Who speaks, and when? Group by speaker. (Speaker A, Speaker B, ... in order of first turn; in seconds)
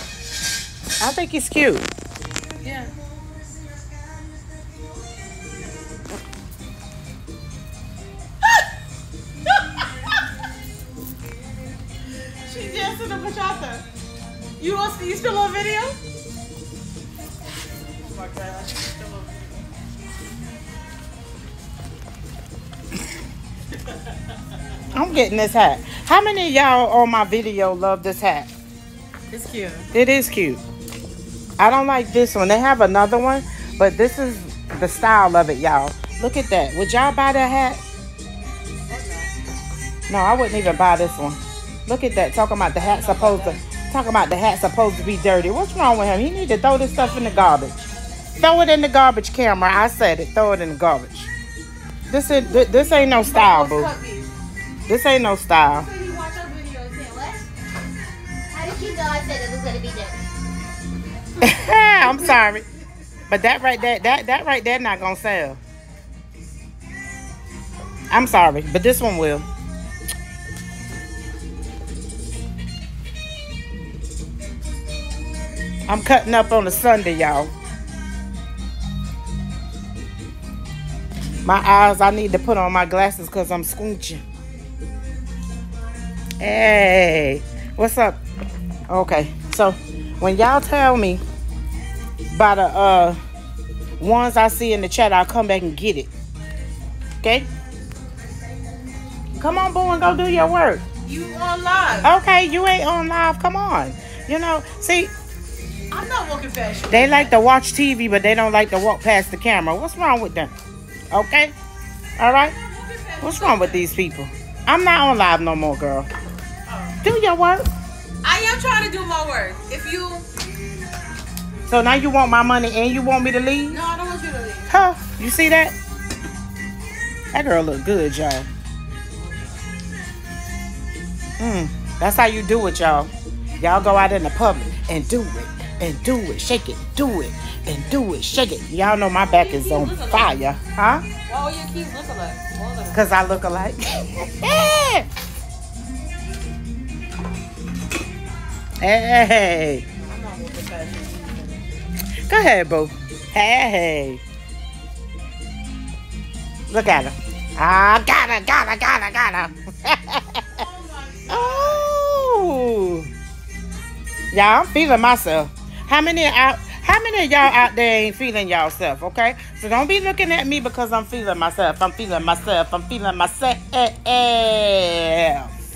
Speaker A: 1.0-1.9, 24.9-28.5, 29.9-30.6, 31.6-37.8, 40.1-47.9, 48.4-51.3, 52.1-53.9, 54.9-55.9, 61.4-62.6, 63.3-65.6, 68.1-69.5, 75.9-77.5, 81.4-84.2, 86.4-88.2, 88.9-91.2, 92.3-93.2, 94.0-96.1, 97.2-97.5, 99.4-100.8, 102.0-105.1, 106.9-110.5, 111.1-111.5, 112.2-112.5, 113.2-116.1, 117.0-117.7, 121.7-123.8, 124.7-125.7, 127.3-128.5, 131.4-141.1, 142.9-145.1, 148.8-149.8, 152.3-154.2, 156.7-160.6, 161.3-163.1, 164.3-175.5
Speaker B: 2.6-2.9, 12.5-13.9, 14.6-16.0, 18.0-19.6, 29.3-29.9, 38.9-39.3, 42.8-43.6, 53.0-54.3, 55.8-56.9, 101.0-102.2, 105.9-107.3, 112.5-113.9, 116.7-117.0, 118.2-120.3, 123.7-124.7, 139.2-140.4, 141.3-143.2, 149.9-151.7, 160.5-161.9
Speaker C: 56.0-57.4, 58.5-60.2